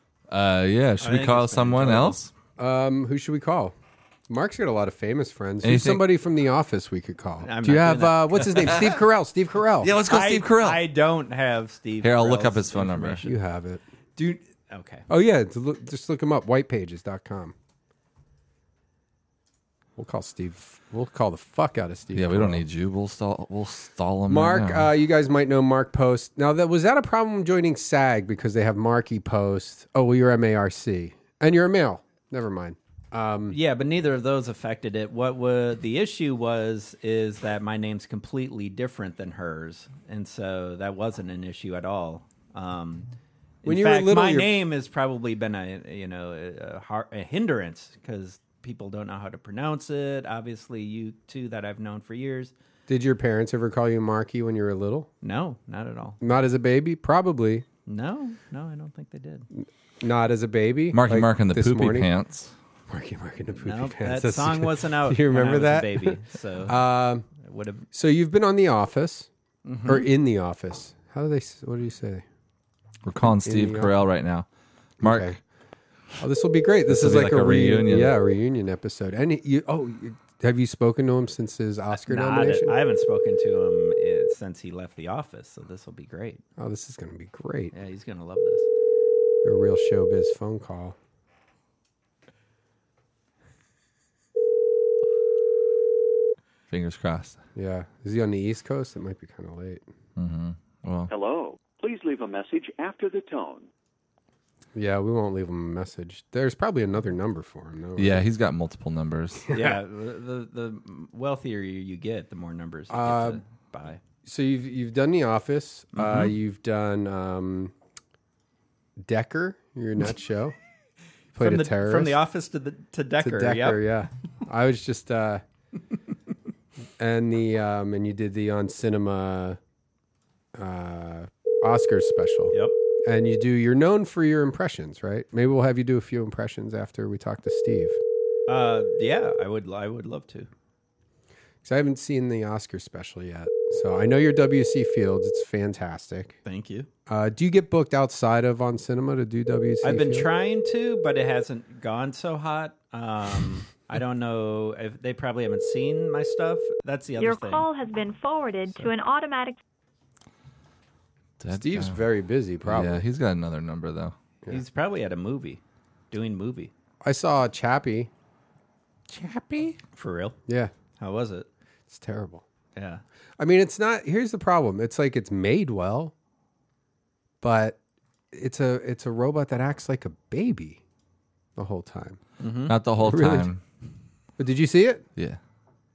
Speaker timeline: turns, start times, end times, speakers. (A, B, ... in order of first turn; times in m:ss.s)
0:00.3-0:02.3 A
0:01.0-0:02.2 B
0:02.6-0:03.7 C
0:04.3-0:09.9 C
0:05.6-0:06.0 A
0:07.4-0:08.8 B
0:09.8-0:10.8 A
0:10.1-0:13.4 B
0:12.0-0:13.2 A
0:13.2-0:13.8 C
0:14.2-0:15.1 B
0:15.1-0:17.5 C
0:20.0-0:22.6 C
0:22.1-0:24.9 A
0:24.3-0:33.6 C
0:33.5-0:43.1 B
0:43.6-0:52.5 B
0:43.6-0:44.6 C
0:52.9-0:55.1 C
0:55.2-0:56.2 B
0:56.2-0:57.6 C
0:57.8-0:59.5 B
0:59.5-1:02.1 C
1:00.9-1:02.5 A
1:02.9-1:07.3 C
1:03.6-1:07.9 B
1:07.9-1:09.3 C
1:09.6-1:10.1 B
1:09.8-1:12.2 C
1:13.0-1:14.4 A
1:13.2-1:13.9 C
1:15.0-1:15.4 A
1:15.0-1:15.4 C
1:16.2-1:22.7 C
1:16.9-1:18.1 A
1:21.9-1:26.4 B
1:26.6-1:27.7 C
1:27.7-1:28.7 B
1:29.4-1:31.0 C
1:36.7-1:37.4 A
1:37.6-1:39.8 C
1:40.2-1:41.1 A
1:41.1-1:43.7 D
1:44.7-1:48.2 C
1:48.0-1:49.5 A
1:49.5-1:54.0 B
1:52.9-1:53.4 C
1:54.2-1:57.7 C
1:55.9-1:56.3 B
1:59.0-2:00.5 C
2:01.3-2:02.2 C
2:01.4-2:03.8 B
2:03.2-2:05.4 C
2:07.0-2:09.6 C
2:10.5-2:18.0 C
2:12.5-2:12.8 B
2:18.5-2:20.5 B
2:21.6-2:26.4 C
2:26.4-2:26.9 B
2:27.1-2:30.3 C
2:29.8-2:37.7 B
2:37.2-2:39.6 E
2:41.4-2:42.0 A
2:41.5-2:43.0 C
2:42.6-2:44.1 A
2:44.5-2:46.7 B
2:47.0-2:48.1 C
2:49.1-2:49.8 A
2:49.9-2:50.4 B
2:50.5-2:50.7 C
2:51.0-2:51.5 B
2:51.9-2:52.4 C
2:52.8-2:53.0 B
2:53.4-2:56.1 C
2:57.4-2:57.8 C
2:58.3-3:00.8 C
3:01.6-3:02.2 C
3:02.4-3:02.7 B
3:02.7-3:03.6 A
3:03.0-3:03.5 C
3:04.4-3:05.0 C